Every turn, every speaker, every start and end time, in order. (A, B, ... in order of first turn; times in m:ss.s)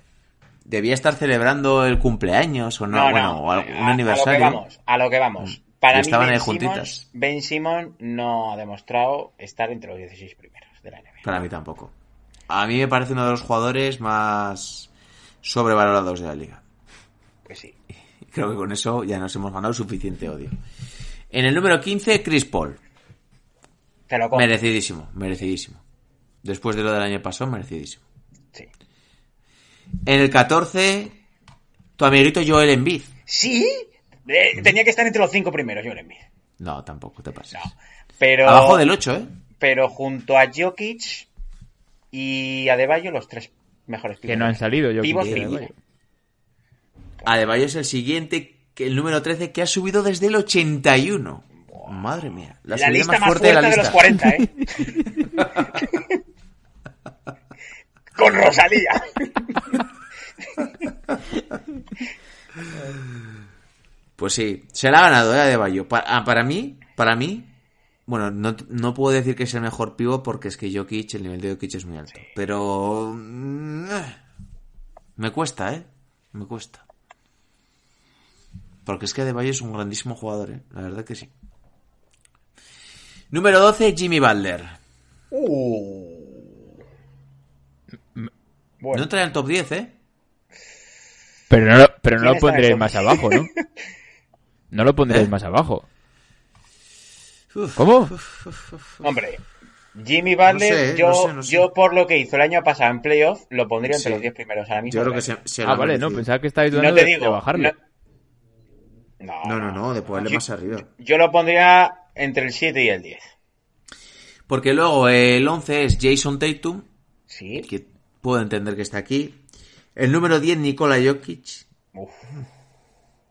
0:00.7-0:04.6 A
0:02.9-0:11.3 B
0:05.9-0:07.0 A
0:11.2-0:11.9 A
0:12.5-0:14.9 A
0:15.4-0:16.6 A
0:17.5-0:17.8 B
0:18.3-0:20.6 A
0:21.3-0:22.8 A
0:24.1-0:24.5 B
0:24.3-0:25.8 A
0:26.4-0:28.0 A
0:30.0-0:31.2 A
0:32.0-0:33.1 A
0:33.3-0:36.3 B
0:36.6-0:37.7 A
0:37.5-0:38.8 B
0:38.4-0:39.3 A
0:39.6-0:41.3 B
0:42.1-0:45.7 B
0:44.3-0:45.7 C
0:47.2-0:54.1 A
0:51.7-0:52.1 B
0:52.7-0:54.9 B
0:55.8-0:56.1 B
0:58.2-0:59.8 B
1:04.2-1:07.5 A
1:08.1-1:14.2 A
1:15.2-1:16.8 A
1:18.9-1:21.3 A
1:23.3-1:24.8 A
1:25.3-1:26.6 B
1:28.8-1:29.1 B
1:28.9-1:30.0 A
1:31.5-1:33.5 C
1:32.2-1:33.6 B
1:34.7-1:35.9 C
1:37.5-1:39.0 A
1:37.8-1:38.1 C
1:39.0-1:39.4 B
1:40.0-1:45.3 B
1:40.4-1:41.7 A
1:43.9-1:44.3 A
1:44.9-1:46.2 A
1:45.6-1:47.7 C
1:46.7-1:47.8 B
1:49.2-1:53.3 B
1:49.4-1:50.9 A
1:54.5-1:56.9 A
1:57.3-1:57.7 B
1:57.6-1:59.4 A
2:00.0-2:01.7 A
2:01.9-2:02.4 B